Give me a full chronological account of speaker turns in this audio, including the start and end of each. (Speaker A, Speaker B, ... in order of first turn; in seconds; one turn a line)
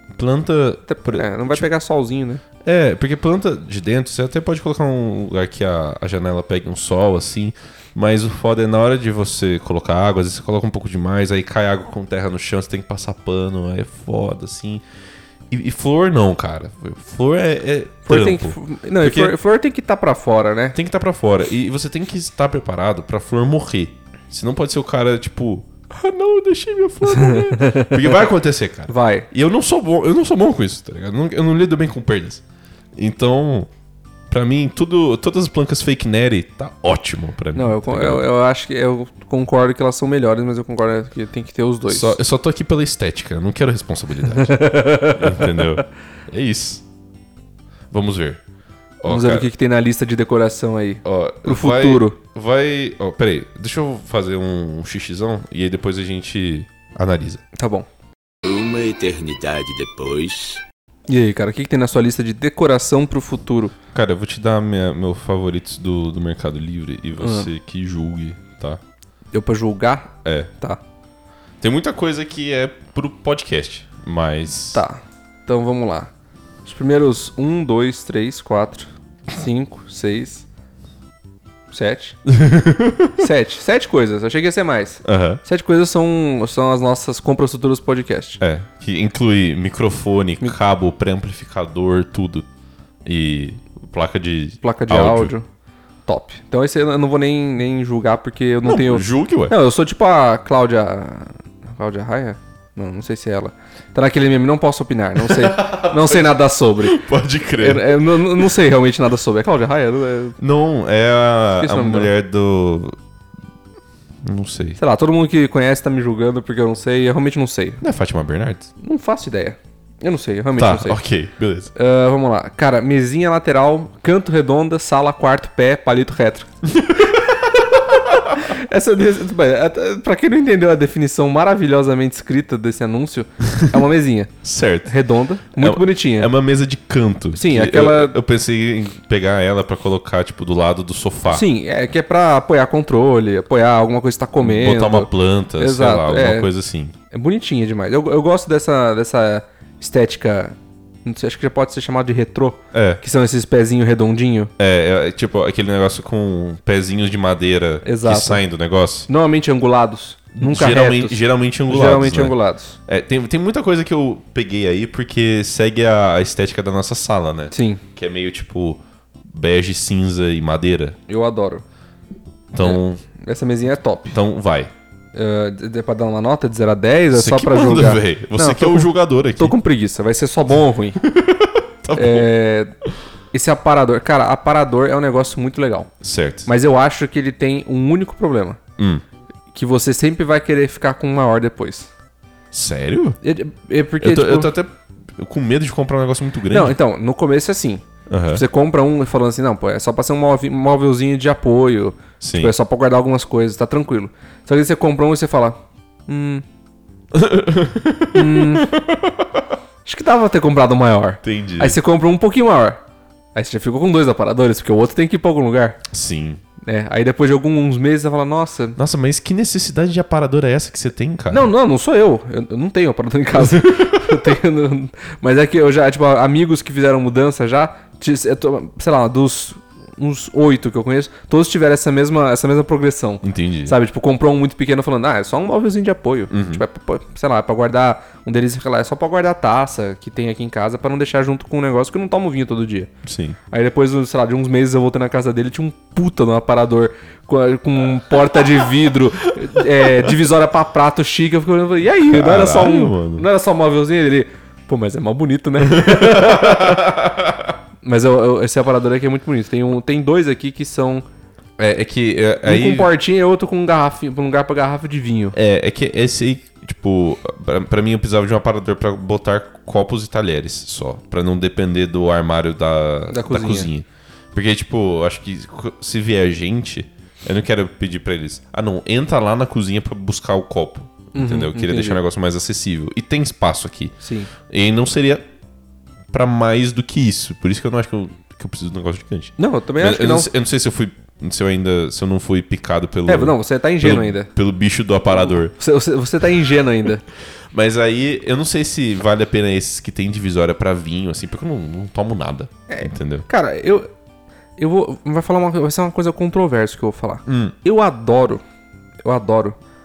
Speaker A: 0.1-1.6
Speaker B: 0.9-2.4
Speaker A: 2.6-14.8
Speaker A: 15.5-19.4
Speaker B: 18.1-20.8
Speaker A: 20.7-32.4
Speaker B: 27.1-28.2
Speaker B: 28.9-29.3
Speaker A: 33.0-33.7
Speaker A: 34.3-38.2
Speaker B: 37.5-42.1
Speaker A: 41.9-46.8
Speaker B: 44.3-45.6
Speaker A: 47.9-48.4
Speaker A: 49.0-49.5
Speaker B: 49.1-52.2
Speaker A: 51.0-57.4
Speaker B: 57.5-57.9
Speaker C: 58.4-60.6
Speaker B: 61.1-63.7
Speaker A: 63.9-68.8
Speaker B: 67.2-67.5
Speaker B: 69.3-70.8
Speaker A: 70.2-70.5
Speaker A: 71.6-74.8
Speaker B: 74.7-76.1
Speaker B: 76.6-80.4
Speaker B: 81.7-82.2
Speaker A: 82.3-83.2
Speaker B: 83.2-88.4
Speaker A: 85.0-85.4
Speaker A: 88.4-92.5
Speaker A: 93.0-95.3
Speaker B: 94.6-95.4
Speaker B: 96.1-107.0
Speaker A: 98.7-99.5
Speaker A: 105.2-108.5
Speaker B: 107.6-110.4
Speaker A: 110.4-113.0
Speaker B: 111.6-112.1
Speaker A: 114.2-114.8
Speaker B: 114.8-117.8
Speaker A: 117.8-118.7
Speaker B: 118.8-121.0
Speaker A: 120.6-121.7
Speaker B: 121.7-126.5
Speaker A: 126.8-127.2
Speaker B: 127.7-134.3
Speaker A: 134.4-134.9
Speaker B: 134.8-136.3
Speaker A: 135.6-141.4
Speaker B: 137.3-138.2
Speaker B: 141.3-146.5
Speaker A: 144.4-146.9
Speaker B: 147.1-154.5
Speaker A: 152.7-153.0
Speaker A: 154.6-159.1
Speaker B: 157.8-158.4
Speaker B: 159.1-162.8
Speaker A: 160.3-162.3
Speaker A: 162.8-171.0
Speaker B: 167.5-167.8
Speaker B: 171.1-171.6
Speaker A: 172.5-173.0
Speaker B: 172.6-174.2
Speaker A: 174.1-174.7
Speaker B: 175.1-181.0
Speaker A: 177.1-179.5
Speaker A: 181.0-182.3
Speaker B: 181.9-182.7
Speaker B: 183.3-185.9
Speaker A: 186.0-186.5
Speaker B: 186.5-188.6
Speaker A: 188.8-189.0
Speaker B: 189.5-191.9
Speaker A: 192.5-193.2
Speaker B: 193.2-194.5
Speaker A: 194.0-196.8
Speaker B: 196.5-206.4
Speaker A: 198.1-198.4
Speaker A: 202.2-202.5
Speaker A: 207.1-209.4
Speaker B: 208.1-208.7
Speaker B: 209.8-212.8
Speaker A: 211.2-211.8
Speaker B: 213.3-215.8
Speaker A: 215.9-216.4
Speaker B: 216.6-218.8
Speaker A: 218.8-221.5
Speaker B: 221.3-242.9
Speaker A: 223.4-224.4
Speaker A: 233.2-233.7
Speaker A: 236.3-236.6
Speaker A: 243.0-243.4
Speaker B: 243.5-256.9
Speaker A: 249.6-250.1
Speaker A: 252.1-253.2
Speaker A: 255.6-257.5
Speaker B: 257.8-261.0
Speaker A: 261.6-262.9
Speaker B: 262.4-265.4
Speaker A: 265.3-283.9
Speaker B: 273.1-273.7
Speaker B: 281.1-282.0
Speaker B: 284.0-284.3
Speaker A: 284.5-285.2
Speaker A: 286.1-295.5
Speaker B: 289.4-290.3
Speaker B: 293.1-294.3
Speaker B: 295.1-297.0
Speaker A: 297.5-303.3
Speaker B: 302.7-303.9
Speaker B: 304.6-308.4
Speaker A: 307.3-307.6
Speaker B: 309.0-309.6